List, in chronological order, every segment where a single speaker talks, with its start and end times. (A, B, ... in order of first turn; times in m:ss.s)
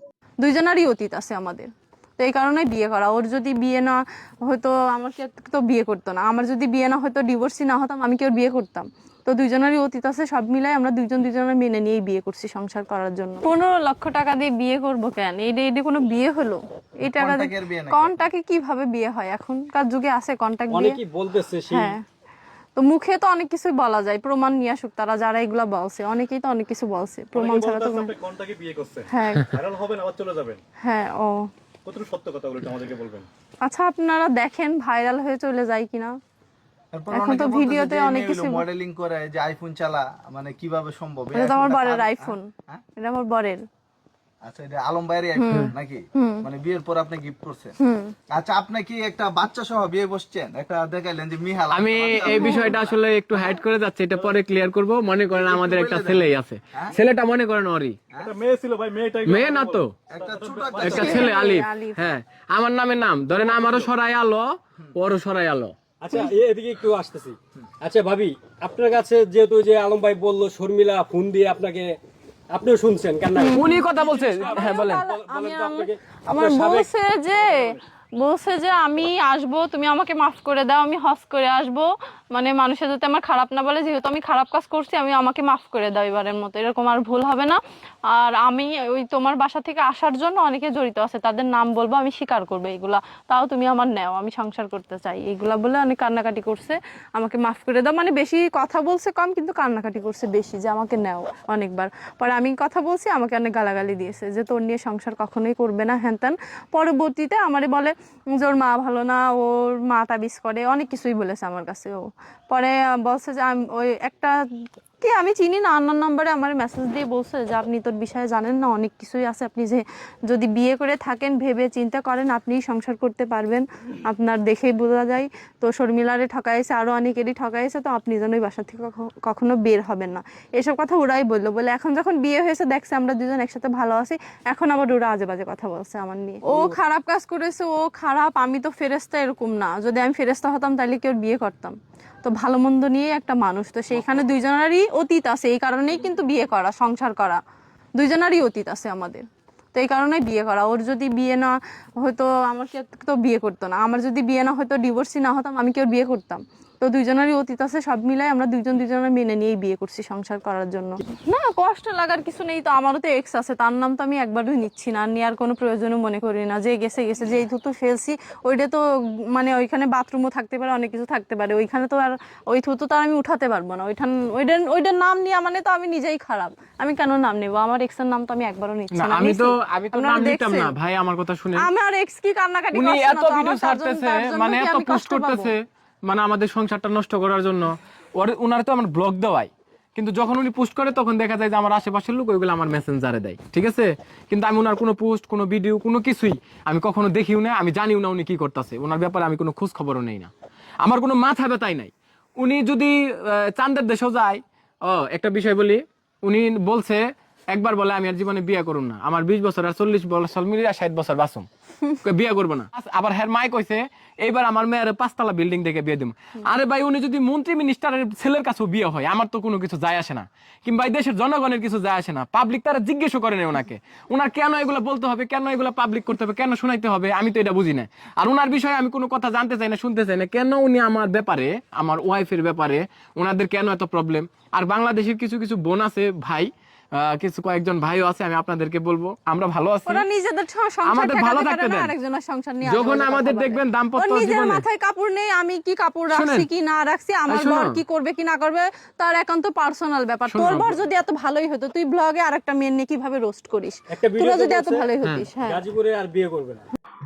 0:00.4-0:21.0 A
0:17.0-0:18.2 B
0:20.7-0:22.0 C
0:21.7-0:22.0 A
0:22.8-0:28.1 A
0:27.3-0:30.6 D
0:29.1-0:29.5 A
0:30.8-0:31.5 A
0:31.8-0:33.3 D
0:33.6-0:36.2 A
0:36.9-0:42.8 B
0:37.1-0:38.6 A
0:41.3-0:43.6 A
0:44.4-0:47.8 B
0:45.4-0:46.5 A
0:47.8-0:48.1 A
0:48.3-0:53.5 B
0:51.7-0:58.0 E
0:52.3-0:52.7 A
0:55.3-0:57.0 B
0:58.2-1:01.4 D
0:59.2-1:00.0 E
1:00.1-1:01.3 B
1:00.8-1:05.7 E
1:00.9-1:02.1 A
1:06.0-1:12.0 C
1:12.5-1:16.9 C
1:13.3-1:54.4 A
1:13.5-1:15.0 E
1:55.0-2:27.4 A
2:16.4-2:16.8 C
2:28.0-2:48.8 A
2:49.3-3:00.7 A
2:58.9-3:01.7 E
3:01.6-3:05.5 A
3:02.7-3:20.3 E
3:20.8-3:31.5 E
3:32.0-4:00.0 E
3:59.9-4:15.6 A
4:00.8-4:01.9 E
4:02.6-4:04.6 E
4:06.1-4:06.5 E
4:07.3-4:07.7 E
4:10.3-4:10.8 E
4:13.9-4:16.6 C
4:15.0-4:15.3 E